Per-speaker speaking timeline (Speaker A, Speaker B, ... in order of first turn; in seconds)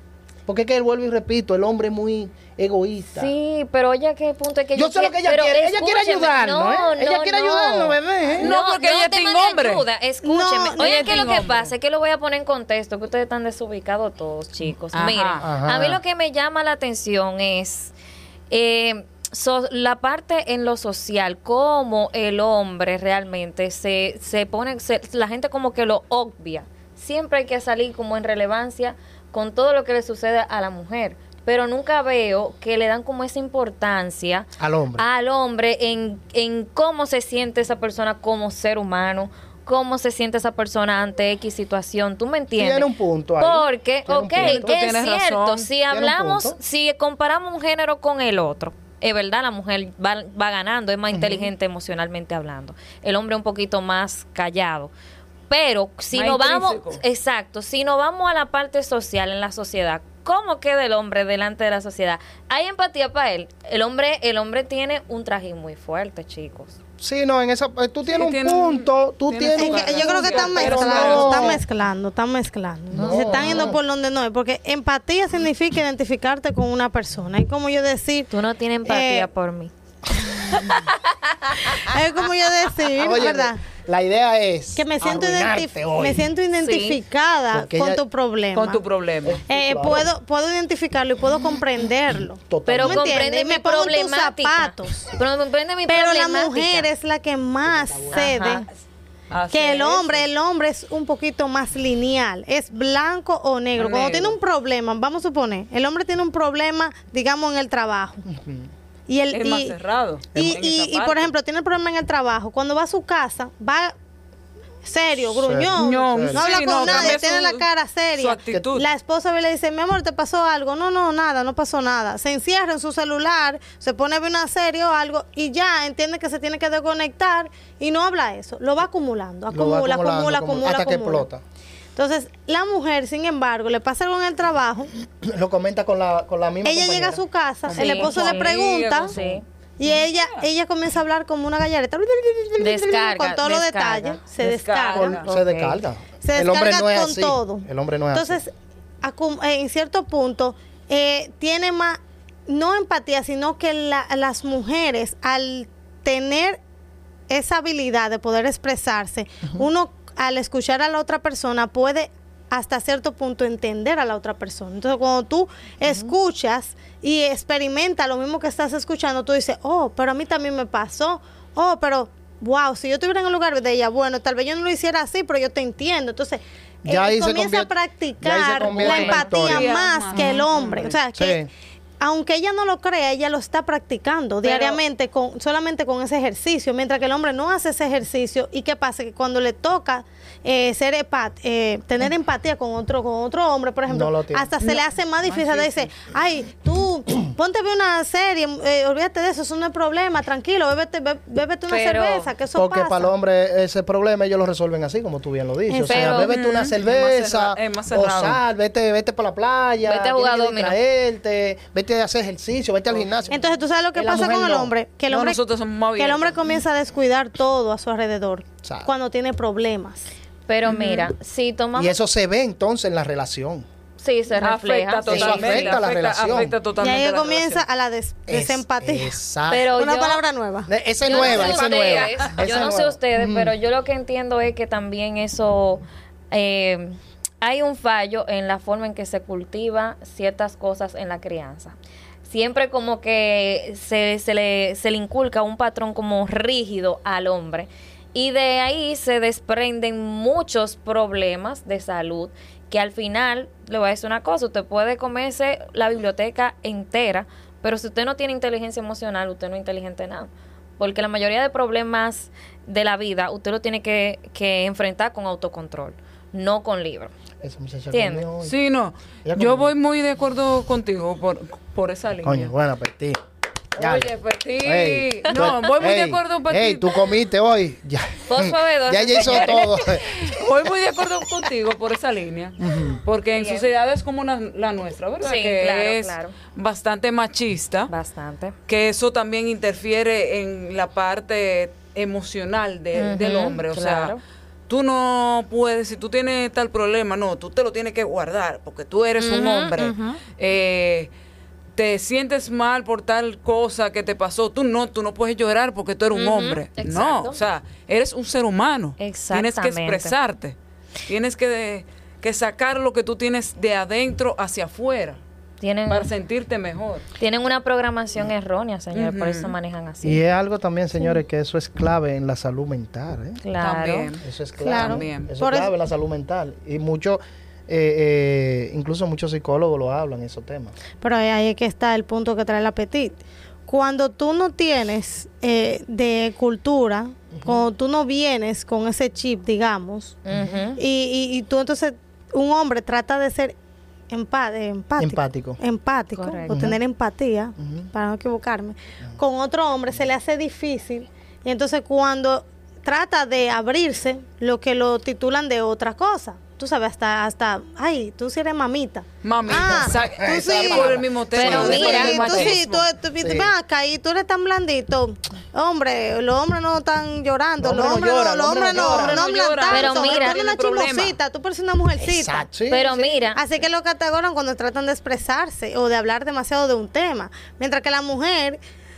Speaker A: 0.5-3.3, 4.8-8.5, 15.4-16.0, 34.6-35.1, 42.6-44.8, 45.9-46.6, 51.1-51.5, 67.0-71.6, 72.9-73.8, 83.0-86.2, 87.5-88.0, 89.2-90.1, 92.4-93.2, 97.7-98.3, 108.3-108.7, 110.4-110.6, 115.3-117.2, 129.5-131.4, 135.2-137.2, 144.9-148.4, 176.8-179.7, 181.2-181.5, 193.9-194.5, 202.5-213.4, 213.9-214.7, 218.6-218.9, 221.8-223.7, 225.1-226.6, 228.3-229.7, 230.7-233.5, 267.4-268.5, 269.2-269.7, 272.2-273.2, 273.8-280.1, 282.6-283.0, 320.0-323.4, 324.2-330.8, 337.4-337.6, 340.3-340.6, 345.0-345.6, 346.5-346.8, 347.6-347.9, 359.5-363.5, 367.6-369.3, 372.0-373.1
Speaker B: 3.1-17.9, 18.5-42.9, 43.4-54.9, 55.5-66.8, 78.3-79.7, 81.5-81.9, 86.6-87.0, 92.7-96.9, 98.1-98.7, 137.7-139.4, 142.6-144.2, 145.2-145.8, 178.7-179.3, 180.1-180.5, 201.7-202.3, 205.8-206.3, 209.8-210.8, 220.5-222.0, 224.0-225.8, 229.5-230.2, 231.1-267.1, 267.9-268.3, 278.3-280.0, 283.4-283.7, 285.2-286.4, 287.9-288.6, 293.0-294.2, 299.2-300.2, 306.1-307.4, 309.0-310.1, 315.6-316.1, 317.2-320.2, 323.4-324.1, 340.2-340.8, 346.1-346.7, 361.4-362.3, 369.7-370.4, 372.7-373.4
Speaker C: 8.4-9.8, 10.8-11.7, 14.9-15.4, 44.4-45.7, 56.1-57.0, 68.1-71.6, 88.5-89.4, 99.3-100.3, 103.8-104.4, 109.3-111.3, 115.8-118.9, 137.7-140.5, 144.4-145.3, 179.1-181.0, 184.4-184.8, 194.6-195.9, 206.3-208.4, 215.1-216.4, 220.7-221.1, 224.4-227.7, 231.1-232.4, 268.4-272.5, 273.8-277.0, 279.2-287.9, 288.7-294.1, 294.7-301.1, 301.8-310.6, 311.1-315.2, 315.9-317.1, 318.9-319.6, 323.6-325.3, 359.2-362.8, 368.7-371.2
Speaker D: 10.2-11.2, 69.6-78.3, 78.8-79.3, 81.7-83.6, 84.8-88.8, 89.5-95.1, 95.9-98.7, 99.5-108.3, 109.1-109.8, 110.3-113.9, 114.8-131.3, 132.0-134.9, 136.6-139.1, 139.8-145.2, 146.2-156.6, 157.3-181.4, 182.0-203.1, 205.7-206.2, 213.3-215.4, 216.0-220.1, 226.8-229.1, 229.8-230.7, 324.6-325.7, 331.0-340.2, 340.8-343.6, 344.1-372.5, 373.0-378.6